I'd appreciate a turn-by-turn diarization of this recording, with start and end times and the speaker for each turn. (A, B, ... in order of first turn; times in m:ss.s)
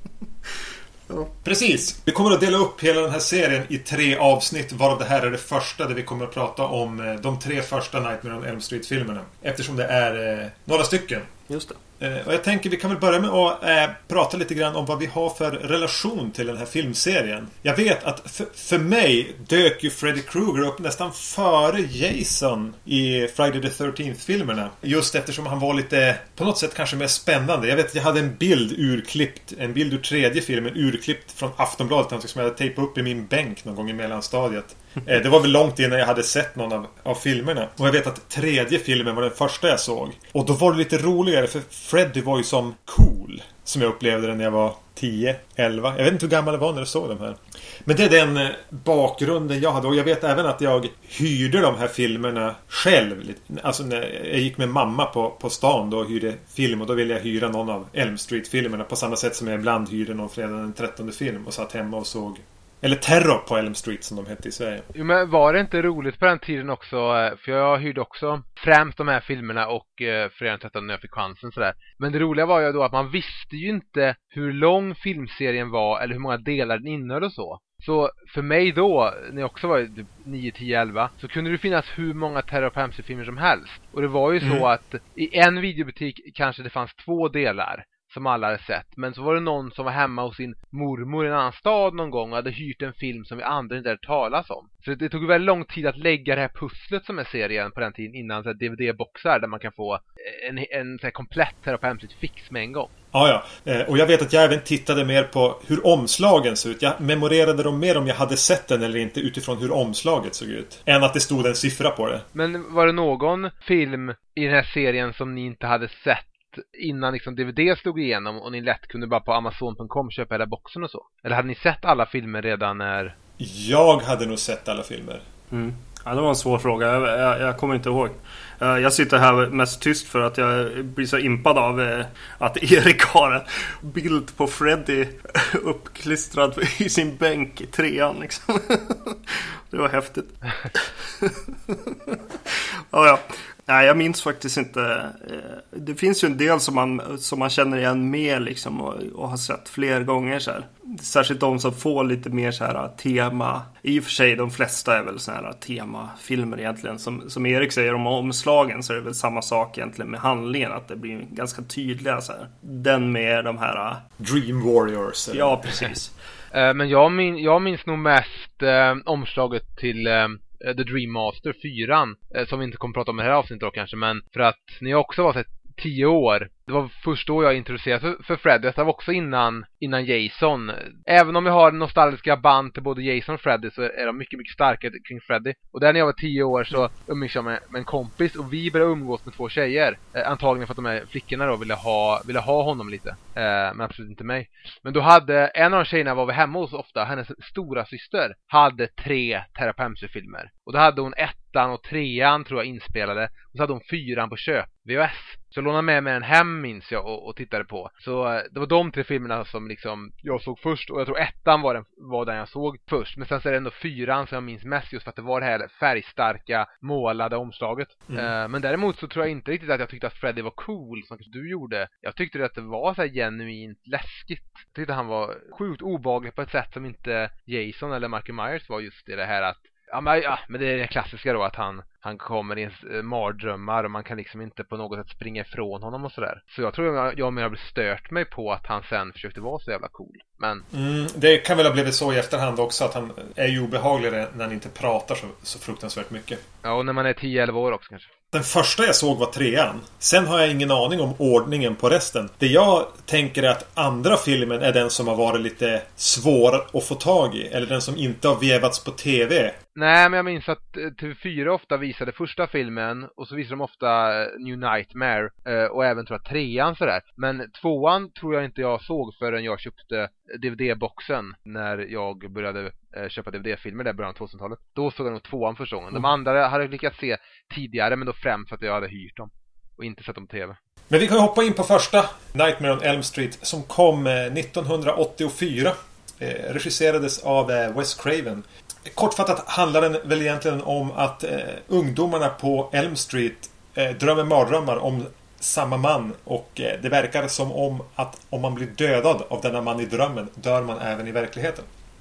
0:01.4-0:11.3 A
0:11.5-0:11.8 B
0:12.0-1:04.9 A
1:04.9-1:42.9 C
1:43.1-1:52.2 A
1:52.3-2:03.1 C
2:03.4-2:05.2 A
2:05.5-2:44.0 B
2:44.2-2:45.7 A
2:45.3-2:46.1 B
2:46.5-4:00.6 C
4:00.7-4:06.4 A
4:06.6-4:08.1 C
4:08.3-4:19.6 A
4:19.8-4:40.6 C
4:40.9-5:01.7 A